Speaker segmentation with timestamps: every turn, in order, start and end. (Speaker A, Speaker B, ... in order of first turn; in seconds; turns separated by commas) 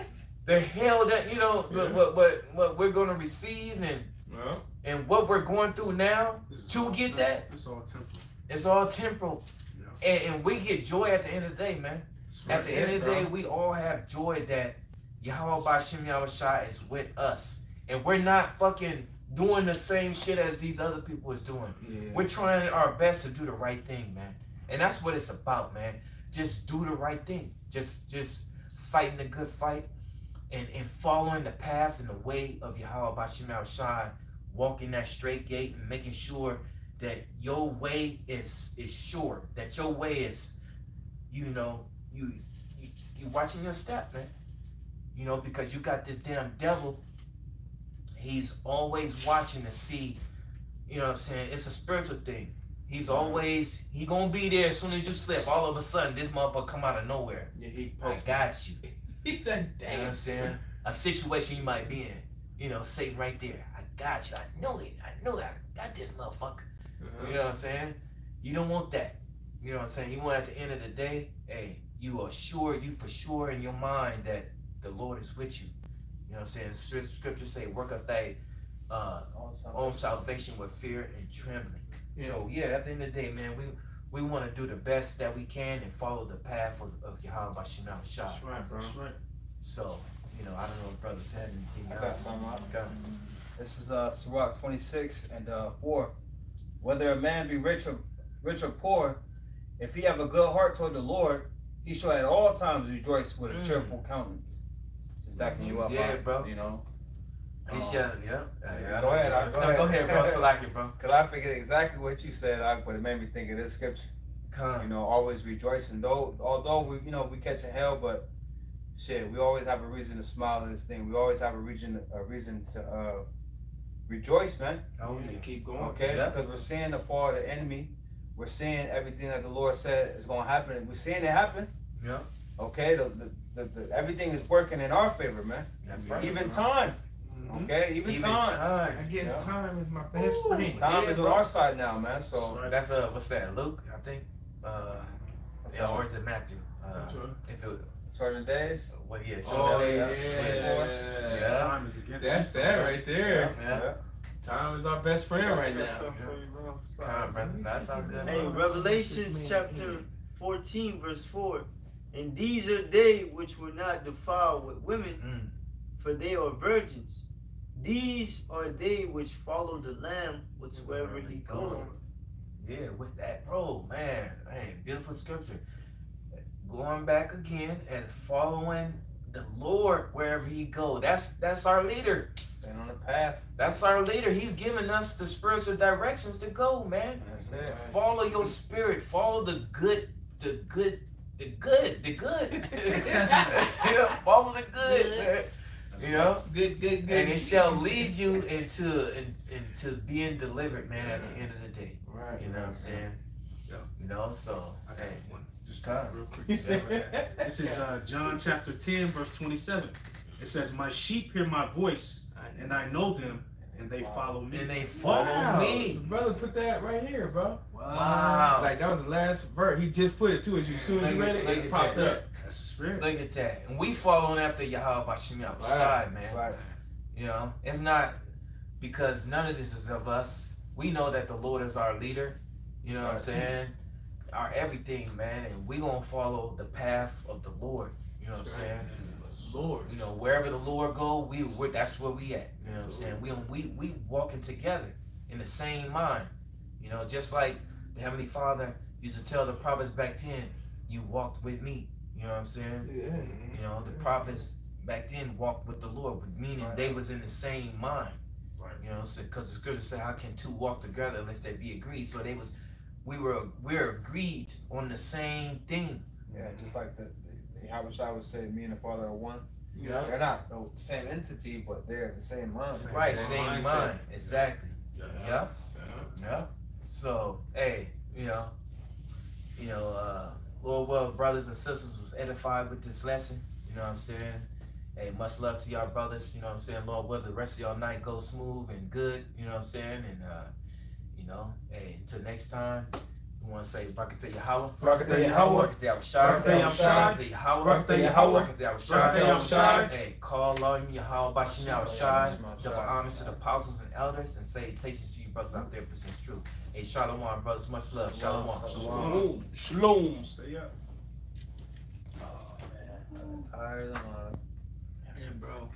Speaker A: 0.4-4.1, Speaker B: 1.7-2.0, Speaker B: 4.3-4.6, Speaker A: 4.8-7.4, Speaker C: 6.5-8.3, Speaker A: 8.5-9.4, Speaker C: 9.7-10.0, Speaker A: 10.0-29.9, Speaker C: 12.3-12.9, Speaker B: 12.4-13.3, Speaker B: 21.8-22.3, Speaker A: 30.5-40.5, Speaker A: 41.3-44.3, Speaker A: 45.1-47.0, Speaker A: 48.1-50.2, Speaker A: 50.9-58.8, Speaker B: 53.0-53.4, Speaker B: 57.5-60.6, Speaker A: 59.9-66.7, Speaker B: 61.5-62.0, Speaker B: 67.0-67.4, Speaker A: 67.2-75.7, Speaker A: 76.3-88.4, Speaker D: 79.3-80.6, Speaker B: 82.2-82.4, Speaker B: 88.3-89.0, Speaker C: 88.4-89.2, Speaker A: 89.6-93.0, Speaker D: 91.9-92.7, Speaker D: 93.5-96.1, Speaker D: 96.8-99.2, Speaker D: 99.8-104.6, Speaker A: 103.5-104.0, Speaker D: 105.2-106.8, Speaker A: 105.6-106.5, Speaker D: 107.7-108.1, Speaker A: 107.7-111.0, Speaker D: 108.6-110.5, Speaker D: 111.0-114.1, Speaker A: 114.5-114.9, Speaker D: 114.8-118.3, Speaker D: 118.9-123.2, Speaker D: 124.1-124.9, Speaker A: 125.0-125.5, Speaker B: 125.0-126.3, Speaker D: 125.8-131.7, Speaker A: 126.0-126.4, Speaker A: 132.0-132.3, Speaker D: 132.6-138.7, Speaker A: 135.8-136.5, Speaker B: 135.9-136.7, Speaker C: 137.2-137.7, Speaker A: 138.0-139.5, Speaker B: 138.9-140.9, Speaker D: 139.2-139.5, Speaker A: 140.7-141.4, Speaker D: 140.7-142.7, Speaker C: 142.3-142.7, Speaker A: 142.6-147.9, Speaker D: 145.6-146.1, Speaker B: 146.9-147.4, Speaker D: 148.1-148.9, Speaker A: 148.9-151.7, Speaker B: 149.4-151.6, Speaker D: 149.4-150.9, Speaker C: 151.3-153.0, Speaker B: 152.2-153.6, Speaker D: 153.2-154.0, Speaker A: 153.5-153.9, Speaker B: 154.4-156.1, Speaker E: 155.3-157.4, Speaker A: 156.1-156.4, Speaker A: 157.0-158.4, Speaker B: 157.2-160.1, Speaker E: 158.2-165.2, Speaker A: 165.2-165.5, Speaker E: 166.0-171.9, Speaker A: 170.9-171.9, Speaker B: 171.5-171.9, Speaker C: 171.7-171.9, Speaker A: 172.6-175.6, Speaker A: 176.6-182.3, Speaker D: 182.6-183.4, Speaker A: 183.6-196.5, Speaker D: 187.2-188.0, Speaker B: 187.4-187.9, Speaker B: 192.7-193.9, Speaker B: 194.9-195.2, Speaker B: 196.2-198.4, Speaker A: 197.1-203.2, Speaker B: 200.9-201.4, Speaker B: 202.0-203.1, Speaker A: 204.0-206.9, Speaker C: 204.8-216.4, Speaker B: 206.4-208.4, Speaker B: 212.4-213.4, Speaker A: 214.5-216.0, Speaker B: 214.9-217.6, Speaker C: 217.7-218.6, Speaker A: 217.9-218.7, Speaker B: 218.6-222.2, Speaker C: 220.6-223.1, Speaker A: 221.0-222.2, Speaker A: 223.0-226.6, Speaker B: 225.5-226.0, Speaker D: 226.2-226.6, Speaker C: 226.3-226.8, Speaker A: 227.1-228.2, Speaker A: 228.8-233.8, Speaker B: 233.0-233.5, Speaker A: 234.3-238.9, Speaker B: 238.4-240.1, Speaker C: 238.5-239.7, Speaker A: 239.8-252.9, Speaker B: 242.6-243.3, Speaker B: 252.8-254.4, Speaker C: 253.1-253.6, Speaker A: 253.5-258.2, Speaker B: 256.5-257.0, Speaker A: 258.8-266.1, Speaker C: 266.3-266.8, Speaker D: 266.3-269.5, Speaker B: 269.7-270.1, Speaker A: 269.8-270.1, Speaker D: 270.0-273.3, Speaker C: 272.7-275.1, Speaker B: 272.8-274.0, Speaker A: 272.9-275.5, Speaker B: 275.0-276.1, Speaker A: 276.1-278.5, Speaker A: 279.6-290.5, Speaker A: 291.1-309.1, Speaker B: 294.8-299.8, Speaker D: 296.2-297.2, Speaker C: 296.5-297.0, Speaker D: 297.8-299.9, Speaker C: 298.9-299.9, Speaker D: 301.4-303.4, Speaker C: 301.8-302.3, Speaker D: 308.1-309.3, Speaker C: 308.7-310.7, Speaker B: 308.8-310.0, Speaker D: 312.2-314.4, Speaker C: 312.2-312.6